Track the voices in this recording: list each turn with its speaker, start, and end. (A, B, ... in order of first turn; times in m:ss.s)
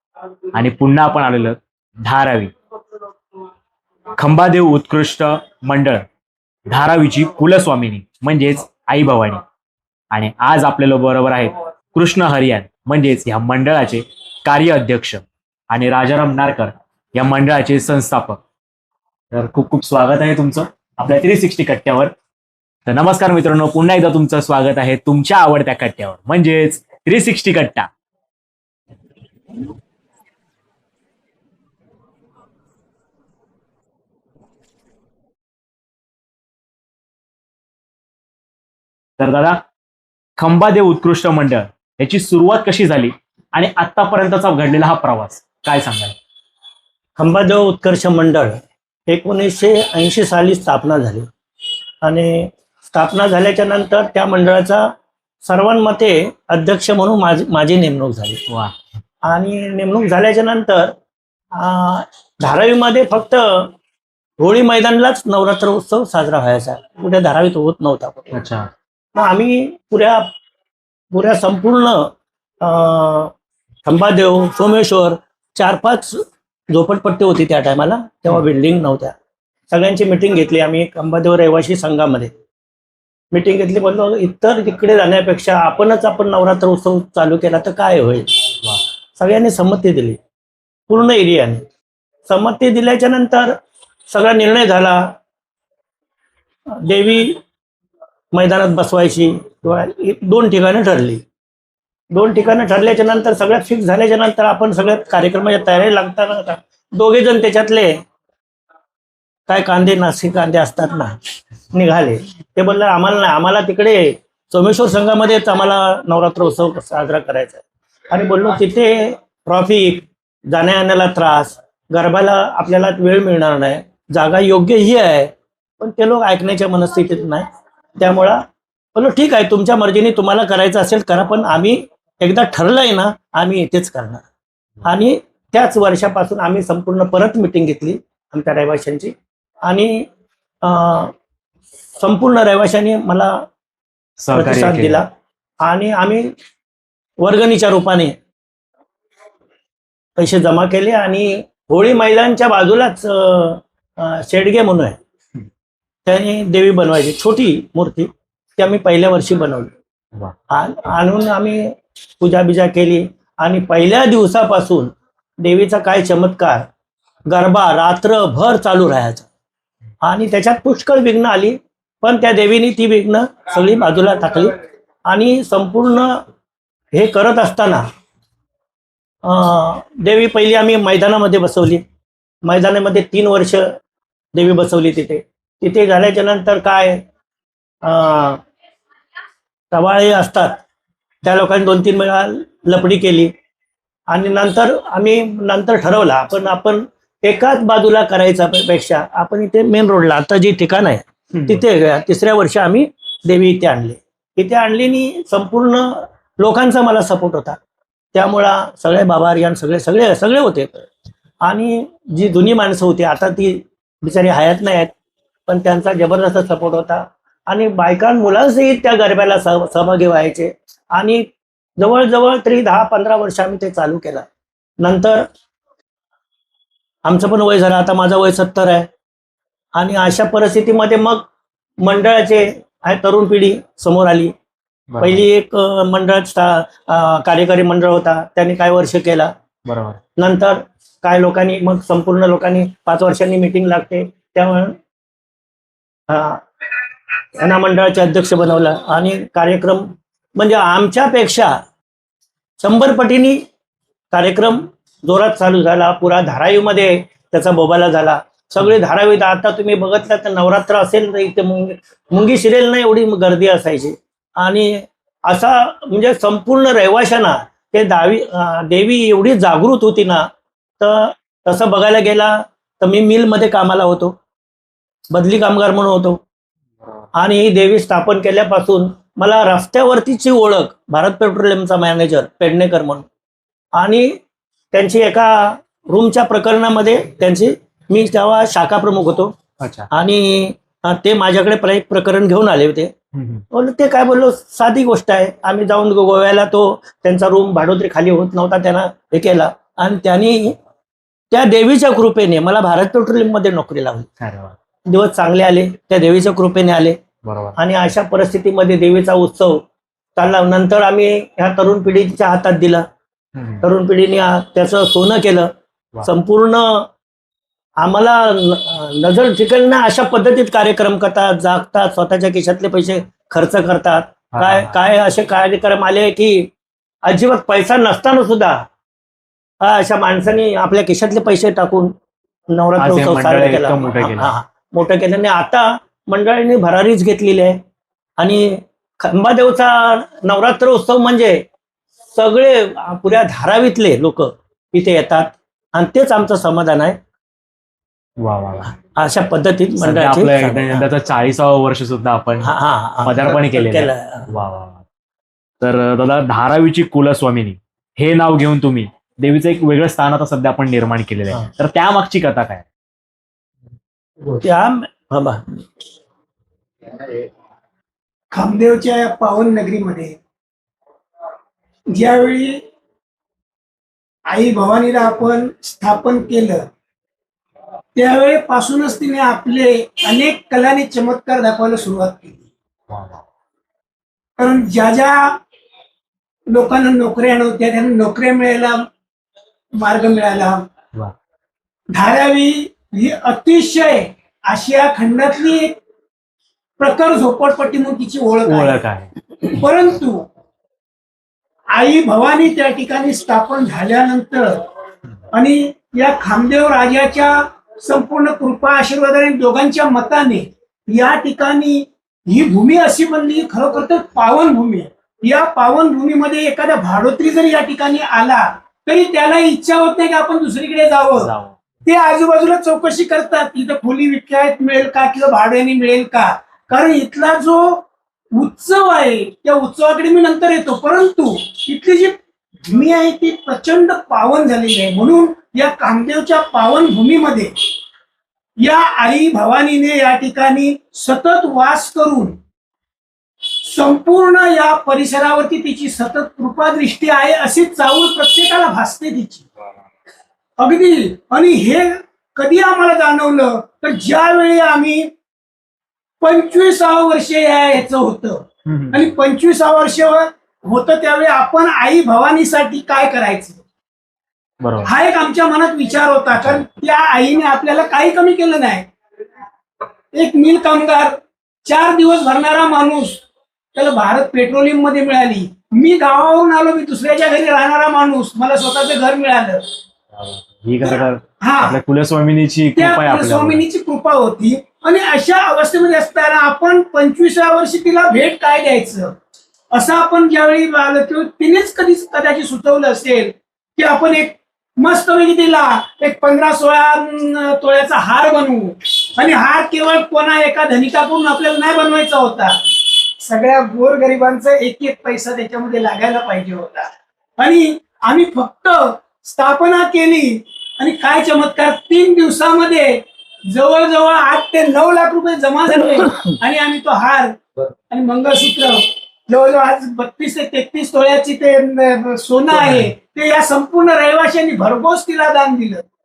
0:00.5-0:02.5 A
0:04.2-0:06.1 A
0:06.7-0:09.4 A
0:10.1-0:18.4 A
0:19.3-0:22.1 A
0:22.9-0:27.9 A
0:39.2-0:39.6 A
0:40.4-0:46.2 A
0:47.2-0:51.3 B
0:52.0-0:54.9 B
0:55.4-0:58.4 B
0:58.5-0:58.7 A
0:59.3-1:01.0 B
1:01.5-1:03.7 B
1:04.4-1:08.3 B
1:08.3-1:08.7 A
1:09.2-1:10.3 B
1:11.1-1:13.3 B
1:13.8-1:19.2 B
1:19.7-1:22.3 B
1:23.3-1:28.3 B
1:29.2-1:30.2 B
1:30.9-1:31.6 B
1:32.3-1:33.6 B
1:34.1-1:35.2 B
1:36.7-1:37.4 B
1:38.3-1:41.2 B
1:42.1-1:48.0 B
1:49.5-1:51.2 B
1:51.7-2:14.2 B
2:14.8-2:20.1 B
2:20.6-2:21.1 B
2:22.0-2:23.5 B
2:24.2-2:25.0 A
2:24.3-2:25.1 B
2:25.6-2:26.3 B
2:27.2-2:28.2 B
2:30.2-2:35.0 B
2:36.1-2:39.7 B
2:40.5-2:46.7 B
2:47.3-2:49.3 B
2:50.0-2:54.6 B
2:55.1-2:56.2 B
2:56.9-2:57.9 B
2:59.2-3:01.8 B
3:02.4-3:03.7 B
3:04.4-3:07.0 B
3:07.8-3:08.4 B
3:09.7-3:10.6 B
3:11.2-3:13.3 B
3:14.1-3:27.6 B
3:21.3-3:21.6 A
3:28.1-3:30.9 B
3:31.4-3:34.9 B
3:35.5-3:44.3 B
3:44.8-3:45.2 B
3:47.1-3:48.9 B
3:49.8-3:51.3 B
3:51.8-3:54.3 B
3:54.9-3:55.2 A
3:55.0-3:59.3 B
3:59.7-4:00.0 A
4:00.2-4:04.8 B
4:06.1-4:06.4 B
4:07.4-4:11.6 B
4:12.6-4:13.4 B
4:14.1-4:30.3 B
4:30.8-4:34.2 B
4:35.1-4:36.2 B
4:37.2-4:43.1 B
4:43.8-4:44.2 B
4:44.7-4:49.4 B
4:49.6-4:49.9 A
4:49.9-4:52.9 B
4:53.1-4:53.4 A
4:53.5-5:00.6 B
5:01.3-5:04.1 B
5:04.2-5:04.6 A
5:04.9-5:07.0 B
5:07.2-5:07.6 A
5:07.6-5:09.6 B
5:10.2-5:12.9 B
5:13.4-5:13.6 A
5:13.6-5:16.9 B
5:17.8-5:26.5 B
5:24.3-5:24.7 A
5:27.1-5:28.6 B
5:29.6-5:32.0 B
5:32.5-5:37.6 B
5:32.8-5:34.3 A
5:38.2-5:41.5 B
5:42.1-5:47.0 B
5:48.2-5:48.7 A
5:48.9-5:50.9 B
5:49.8-5:52.5 A
5:52.4-5:54.3 B
5:53.0-5:54.8 A
5:55.6-6:02.7 A
6:04.4-6:05.6 B
6:08.3-6:10.2 C
6:11.9-6:12.6 C
6:14.3-6:16.7 C
6:18.0-6:22.4 C
6:22.9-6:23.2 A
6:24.4-6:25.4 C
6:26.5-6:28.9 C
6:29.8-6:30.6 C
6:31.9-6:35.8 C
6:36.8-6:38.8 C
6:38.5-6:39.1 A
6:39.4-6:40.2 C
6:41.7-6:44.6 C
6:45.3-7:01.3 C
7:01.2-7:01.6 A
7:01.8-7:17.5 C
7:18.6-7:22.4 C
7:23.6-7:29.5 C
7:30.6-7:35.1 C
7:36.2-7:43.6 C
7:38.7-7:39.1 A
7:44.6-7:44.9 A
7:44.8-7:48.9 C
7:46.3-7:46.7 A
7:50.1-7:53.2 C
7:53.8-7:59.6 C
8:00.1-8:03.6 A
8:00.9-8:01.8 C
8:02.8-8:09.2 C
8:09.7-8:37.4 C
8:37.9-8:45.8 C
8:42.5-8:42.9 A